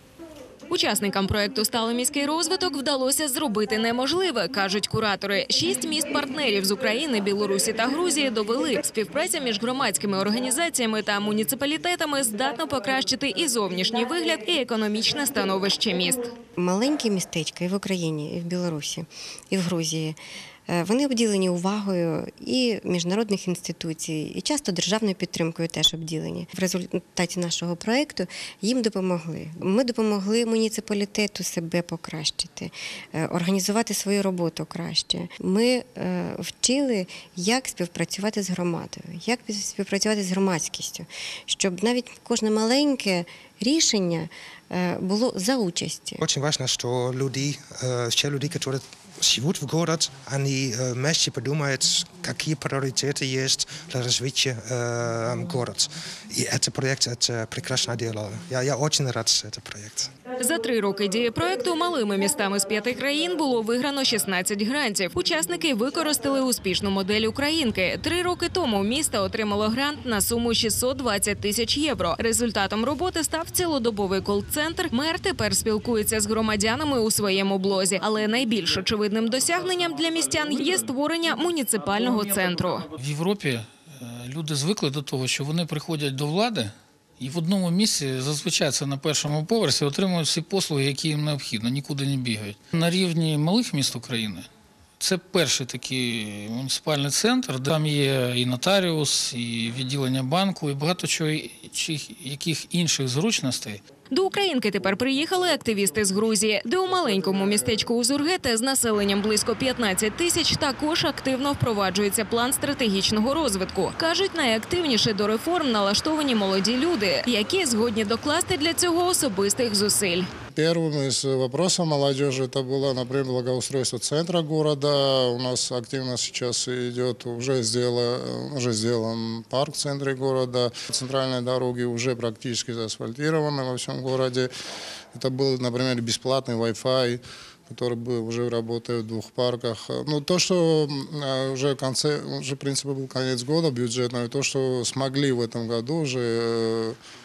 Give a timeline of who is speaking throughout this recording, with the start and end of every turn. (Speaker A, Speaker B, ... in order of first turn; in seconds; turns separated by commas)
Speaker A: 0.7-16.3, Speaker B: 16.6-20.2, Speaker B: 20.7-46.2, Speaker C: 46.2-60.1, Speaker A: 60.4-82.9, Speaker D: 83.0-94.5, Speaker D: 95.0-103.8, Speaker A: 104.1-120.3, Speaker E: 120.5-134.5, Speaker E: 135.1-146.9